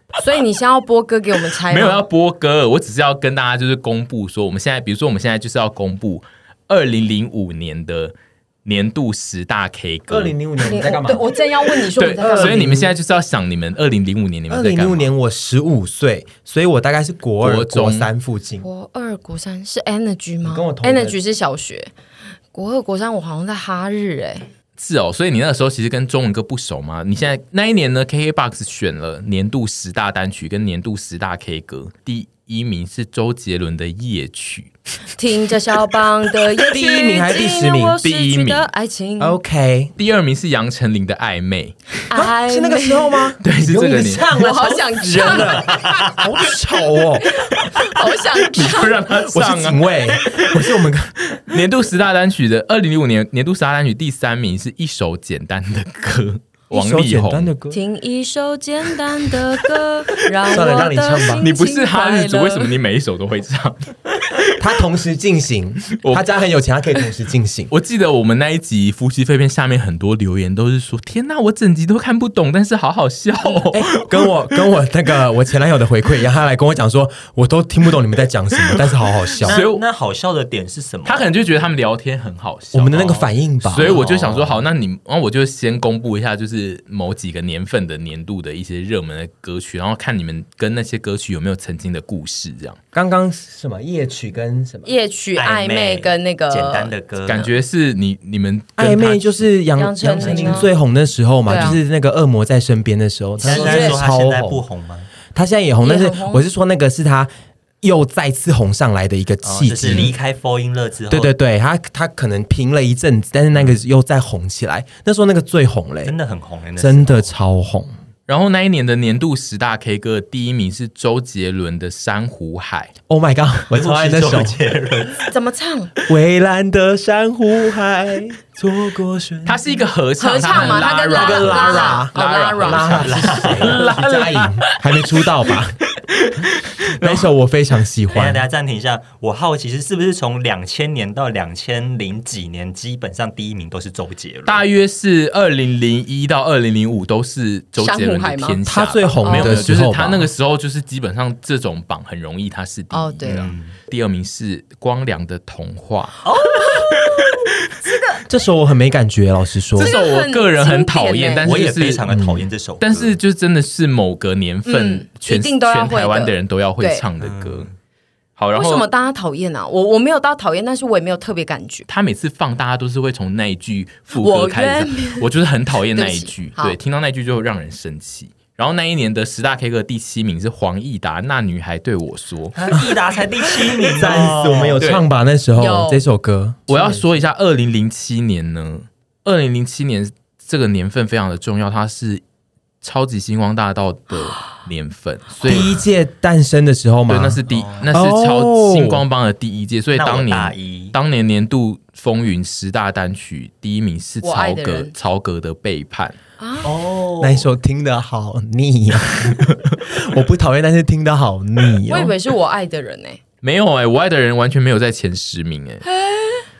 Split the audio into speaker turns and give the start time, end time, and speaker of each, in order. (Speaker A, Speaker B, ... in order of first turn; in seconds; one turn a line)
Speaker A: 0.2-2.1
Speaker B: 1.6-10.4
Speaker C: 10.1-11.3
Speaker A: 10.6-12.7
Speaker B: 12.0-15.1
Speaker C: 12.1-12.9
Speaker C: 14.5-18.7
Speaker B: 17.4-18.1
Speaker A: 18.6-21.9
Speaker C: 20.4-21.2
Speaker A: 22.5-24.5
Speaker B: 24.8-34.7
Speaker A: 35.2-39.4
Speaker C: 36.7-38.0
Speaker B: 38.0-38.7
Speaker C: 39.2-39.9
Speaker B: 40.0-41.9
Speaker A: 42.1-43.3
Speaker C: 42.1-47.3
Speaker B: 43.4-44.3
Speaker A: 44.2-45.7
Speaker D: 45.7-46.1
Speaker A: 47.2-49.0
Speaker B: 47.5-57.5
Speaker C: 49.1-51.1
Speaker C: 56.7-57.8
Speaker A: 57.7-62.8
Speaker C: 60.5-61.5
Speaker B: 61.4-64.5
Speaker C: 64.6-67.7
Speaker B: 66.0-66.3
Speaker B: 67.7-74.3
Speaker C: 73.7-79.6
Speaker B: 79.4-79.8
Speaker D: 79.4-81.3
Speaker B: 81.0-92.8
Speaker C: 82.7-84.0
Speaker D: 83.8-84.7
Speaker C: 92.9-94.9
Speaker A: 94.8-97.5
Speaker D: 95.3-97.4
Speaker B: 97.3-99.5
Speaker C: 98.8-104.6
Speaker A: 99.8-100.7
Speaker B: 100.2-100.7
Speaker A: 101.5-101.8
Speaker D: 103.4-105.1
Speaker A: 103.4-104.0
Speaker C: 105.3-107.3
Speaker A: 105.8-106.5
Speaker C: 107.8-110.1
Speaker D: 109.4-111.3
Speaker C: 111.1-116.2
Speaker D: 116.0-117.3
Speaker C: 116.8-117.9
Speaker B: 118.3-122.9
Speaker C: 123.1-124.6
Speaker D: 123.7-125.3
Speaker A: 125.3-125.9
Speaker C: 126.1-129.8
Speaker B: 129.4-137.3
Speaker A: 130.2-133.3
Speaker C: 130.5-135.8
Speaker D: 132.8-133.9
Speaker C: 137.0-138.4
Speaker D: 138.1-144.6
Speaker B: 144.5-156.9
Speaker A: 147.8-148.6
Speaker C: 148.6-150.3
Speaker A: 149.2-149.7
Speaker A: 152.9-153.5
Speaker D: 153.2-153.8
Speaker A: 156.2-158.2
Speaker C: 158.3-160.0
Speaker B: 159.8-162.1
Speaker A: 159.8-161.6
Speaker D: 161.4-163.2
Speaker C: 162.1-162.5
Speaker B: 162.8-167.7
Speaker A: 164.7-167.1
Speaker D: 167.2-167.7
Speaker B: 168.4-168.9
Speaker A: 168.6-171.9
Speaker B: 171.9-182.6
Speaker A: 174.1-175.3
Speaker A: 175.9-176.8
Speaker D: 182.6-184.9
Speaker C: 184.0-187.1
Speaker B: 184.8-185.1
Speaker A: 185.6-186.1
Speaker B: 186.7-192.2
Speaker B: 192.8-195.7
Speaker C: 195.4-199.0
Speaker B: 197.1-206.2
Speaker D: 197.5-197.9
Speaker D: 199.9-201.0
Speaker A: 204.2-204.9
Speaker A: 206.4-206.8
Speaker D: 206.6-207.5
Speaker C: 207.2-212.2
Speaker A: 211.9-213.2
Speaker B: 213.4-215.8
Speaker A: 215.8-216.5